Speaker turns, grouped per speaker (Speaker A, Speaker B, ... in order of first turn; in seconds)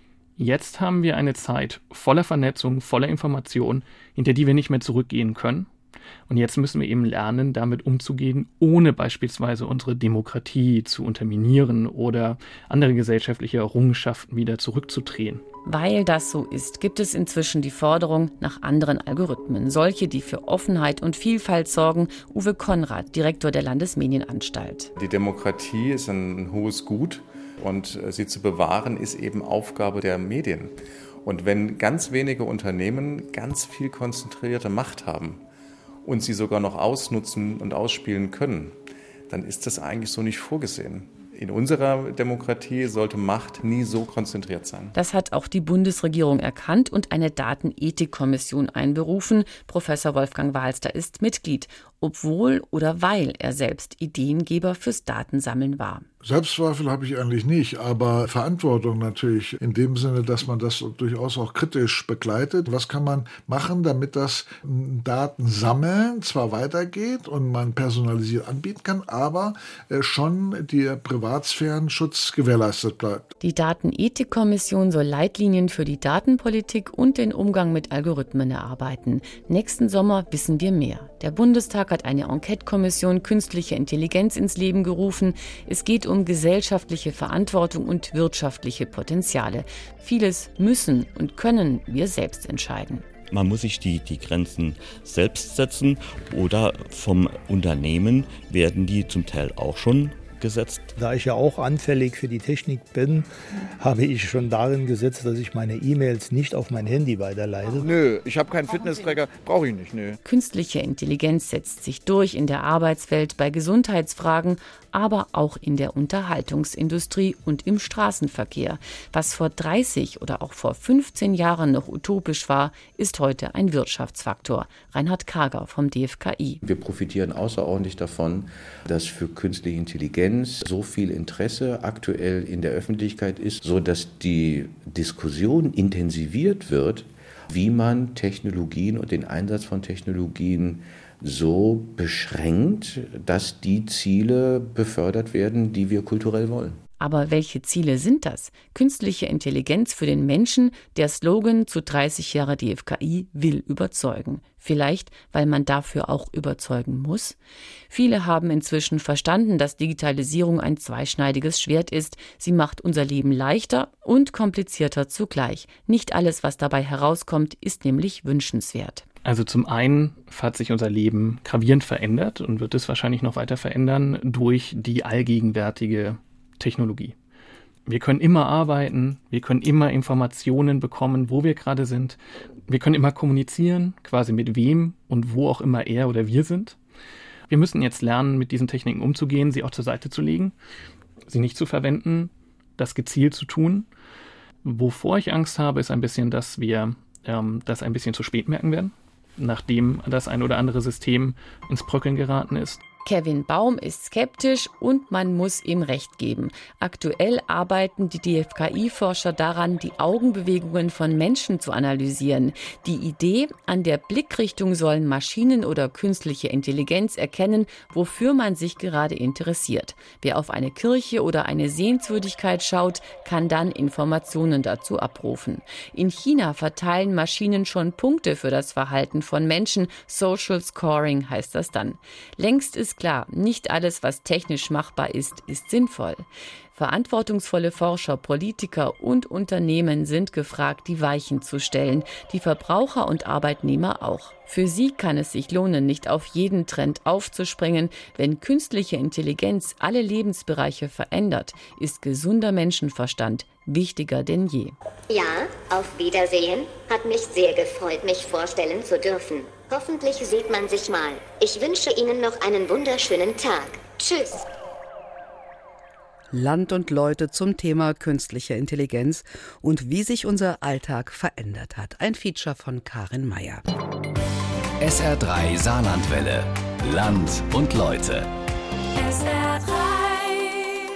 Speaker A: 0.4-5.7, 6.3-15.4, 169.2-177.1, 177.8-186.8, 187.5-190.5, 191.3-193.9, 194.6-202.8
Speaker B: 15.6-24.9, 44.9-56.0, 73.4-93.0, 110.2-126.6, 147.0-157.3, 157.9-169.0, 203.0-254.8
Speaker C: 25.0-30.7, 31.2-35.4, 36.0-38.7, 39.3-44.9
Speaker D: 56.2-73.3
Speaker E: 93.3-100.8
Speaker F: 100.9-107.9
Speaker G: 107.8-110.2
Speaker H: 126.6-146.8
Speaker I: 255.1-264.5
Speaker J: 266.3-273.6
Speaker K: 274.8-278.3